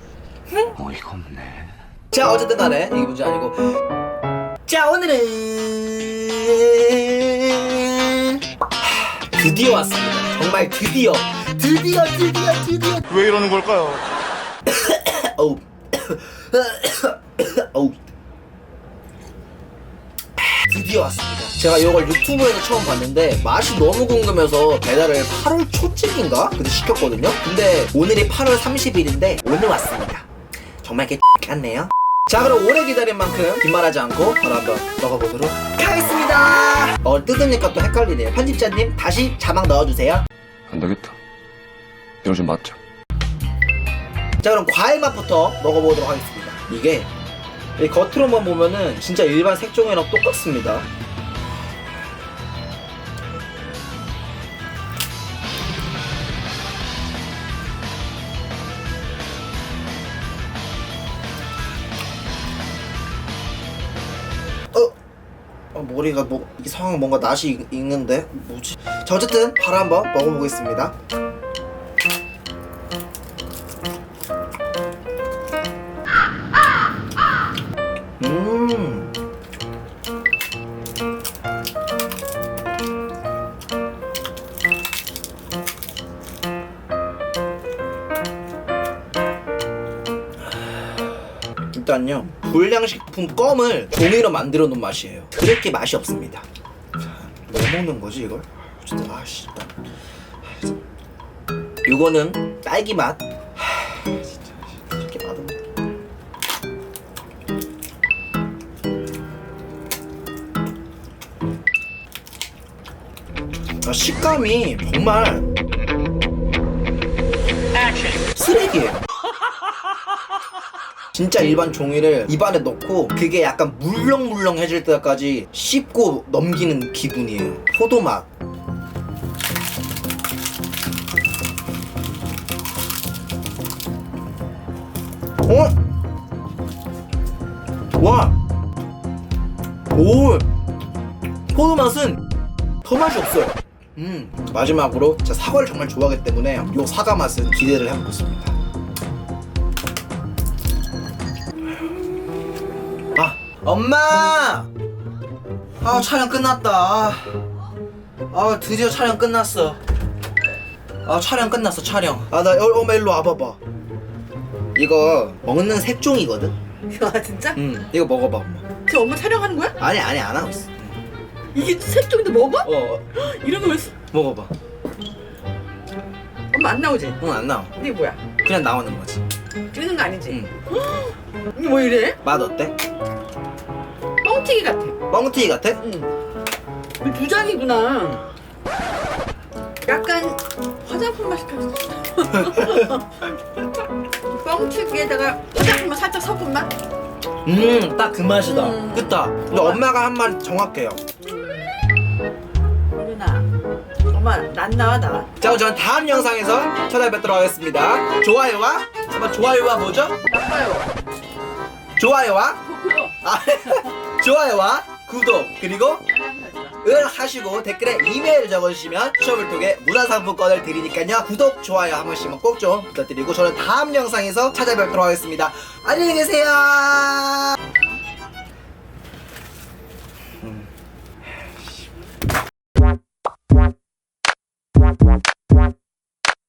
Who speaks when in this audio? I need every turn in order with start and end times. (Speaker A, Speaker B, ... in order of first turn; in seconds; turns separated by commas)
Speaker A: 0.8-1.7, Speaker B: 2.1-3.8, Speaker B: 4.7-13.4, Speaker A: 13.2-14.0, Speaker B: 14.7-18.0, Speaker B: 20.4-30.3, Speaker B: 30.8-40.3, Speaker A: 40.7-41.2, Speaker A: 42.2-42.8, Speaker B: 44.4-47.1, Speaker B: 47.8-50.9, Speaker B: 65.7-70.9, Speaker B: 78.2-79.1, Speaker B: 90.5-90.8, Speaker B: 91.7-96.5, Speaker B: 97.0-99.7, Speaker B: 101.8-105.6, Speaker B: 113.8-115.5, Speaker B: 118.3-119.1, Speaker B: 121.1-128.3, Speaker B: 135.4-135.8, Speaker B: 138.0-138.3, Speaker B: 139.9-140.5, Speaker B: 141.5-142.2, Speaker B: 142.8-148.6, Speaker B: 153.2-154.7, Speaker B: 155.8-157.4, Speaker B: 158.3-159.8, Speaker B: 161.1-163.6, Speaker B: 164.8-166.6, Speaker C: 166.9-167.6, Speaker B: 167.5-168.7, Speaker C: 168.9-169.8, Speaker B: 169.8-171.0, Speaker C: 171.5-174.0, Speaker B: 172.6-173.1, Speaker B: 174.1-174.5, Speaker C: 176.5-177.2, Speaker B: 177.2-177.7, Speaker C: 177.8-178.3, Speaker B: 178.4-179.2, Speaker C: 179.7-182.2, Speaker B: 180.3-180.5, Speaker B: 182.2-182.8, Speaker C: 184.2-185.0, Speaker B: 185.1-185.8, Speaker C: 185.8-186.1, Speaker C: 187.0-188.3, Speaker C: 189.8-193.1, Speaker B: 192.3-192.9, Speaker C: 194.3-196.7, Speaker B: 197.5-201.0, Speaker C: 198.4-199.8, Speaker C: 203.0-203.5, Speaker C: 204.1-205.3, Speaker B: 205.4-210.2, Speaker C: 210.3-210.9, Speaker B: 212.0-212.7, Speaker C: 212.7-213.1, Speaker B: 213.2-216.0, Speaker C: 216.1-216.8, Speaker B: 216.8-227.6, Speaker B: 230.4-230.7